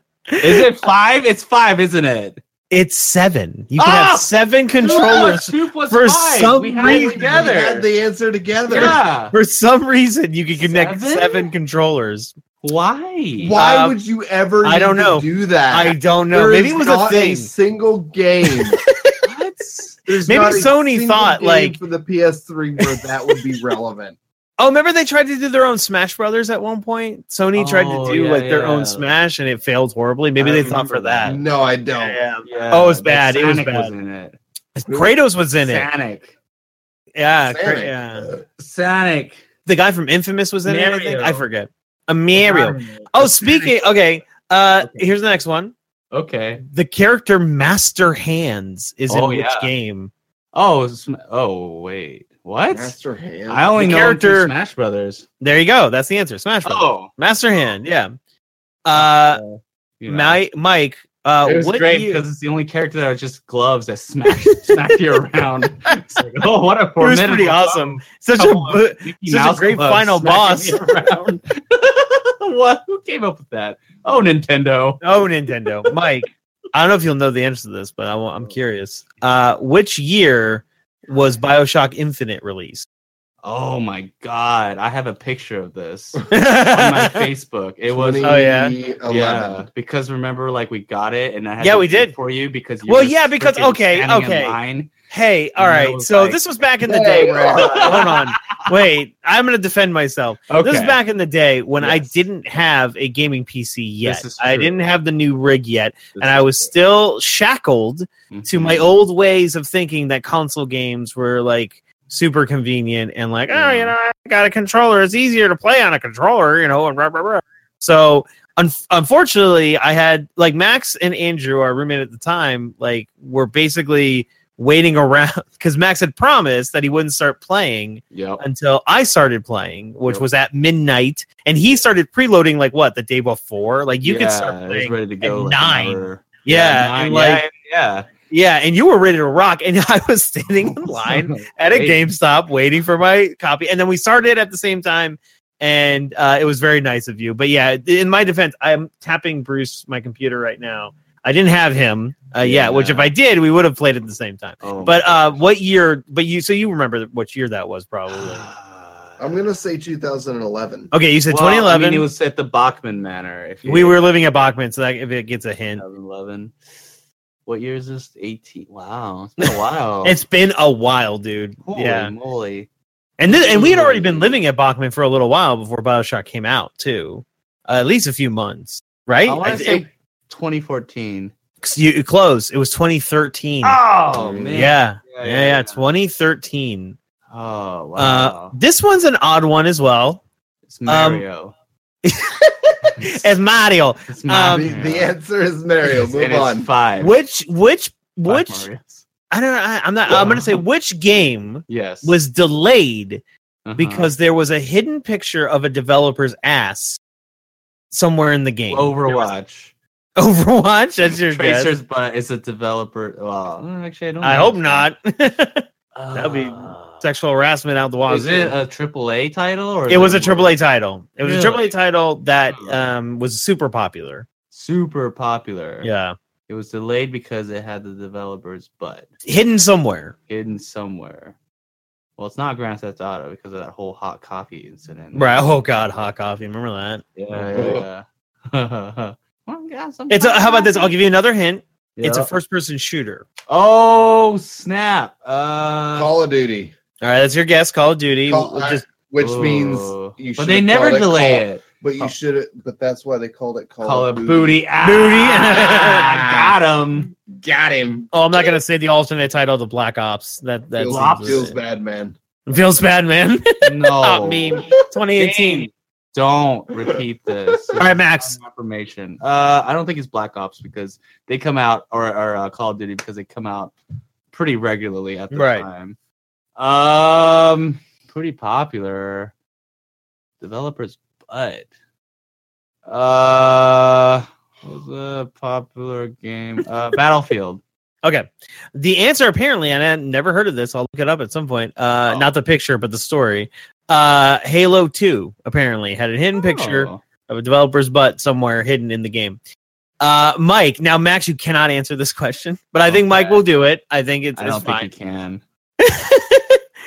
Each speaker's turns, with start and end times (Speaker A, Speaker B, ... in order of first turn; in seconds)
Speaker A: 0.3-0.7, 2.7-7.5, 8.7-12.3, 13.6-14.0, 14.6-17.5, 18.6-19.2, 20.2-21.8, 24.6-31.4, 32.0-33.9, 34.8-35.9, 37.2-38.3, 39.7-45.7, 46.6-50.1, 53.8-54.5, 55.4-58.1, 58.9-59.4, 60.1-62.2, 67.0-70.9, 75.0-82.9, 86.3-87.3, 88.2-88.7, 91.6-92.1, 92.9-94.6, 95.1-137.5, 138.3-158.5, 160.9-162.1, 163.7-165.8, 170.0-172.1, 173.2-179.9, 181.6-183.8, 184.5-187.0, 188.0-190.2, 190.9-191.2, 192.1-194.8, 197.0-198.7, 199.3-203.2, 203.8-207.0, 207.9-209.2, 210.2-211.7, 214.2-218.6, 219.9-224.3, 225.8-226.1, 229.3-230.2, 235.1-237.8, 240.1-243.2, 247.0-248.8, 254.8-256.4, 258.1-261.6, 262.5-265.7, 267.8-268.4, 275.3-275.7, 288.0-299.4, 300.0-304.9, 305.8-306.6
Speaker B: 0.4-2.4, 3.8-7.9, 8.7-9.3, 10.6-11.5, 12.6-13.6, 19.2-20.7, 27.6-29.1, 30.4-31.4, 32.5-34.4, 35.6-36.3, 38.6-39.4, 40.6-41.5, 42.4-43.8, 44.8-45.1, 46.1-46.6, 49.1-49.7, 50.5-53.0, 53.5-55.3, 56.6-57.1, 59.0-60.4, 61.4-75.0, 83.4-88.4, 89.1-94.9, 95.6-96.4, 97.5-98.8, 100.5-101.0, 101.8-102.1, 104.0-104.9, 106.2-106.7, 108.3-108.9, 113.5-114.0, 128.1-128.4, 134.0-138.1, 140.6-142.1, 152.4-153.1, 154.6-155.4, 158.1-159.2, 161.3-164.1, 165.8-166.6, 167.5-170.2, 171.7-172.7, 173.3-174.4, 179.2-181.3, 183.6-185.8, 187.3-188.6, 190.7-191.6, 194.1-195.1, 195.8-197.2, 198.3-199.0, 200.1-200.6, 201.7-202.2, 203.7-204.1, 208.7-209.7, 211.1-214.9, 215.9-217.0, 218.1-220.5, 221.2-221.7, 222.5-222.8, 224.5-225.9, 226.5-229.1, 230.3-231.3, 232.2-235.3, 237.2-240.9, 242.0-242.3, 243.5-246.1, 249.2-252.1, 253.8-257.1, 260.8-261.5, 263.6-273.7, 274.3-276.0, 276.6-279.3, 280.4-281.7, 282.9-287.6, 296.4-297.0, 302.9-303.4, 304.4-305.4
Speaker C: 4.9-5.4, 6.8-9.0, 13.4-18.8, 20.1-24.2, 31.2-32.2, 37.5-38.4, 52.7-53.7, 87.9-89.7, 96.8-98.1, 159.2-160.9, 184.1-184.7, 194.4-196.7, 237.6-237.8, 245.9-246.7, 248.3-254.6, 257.1-258.1, 260.8-262.2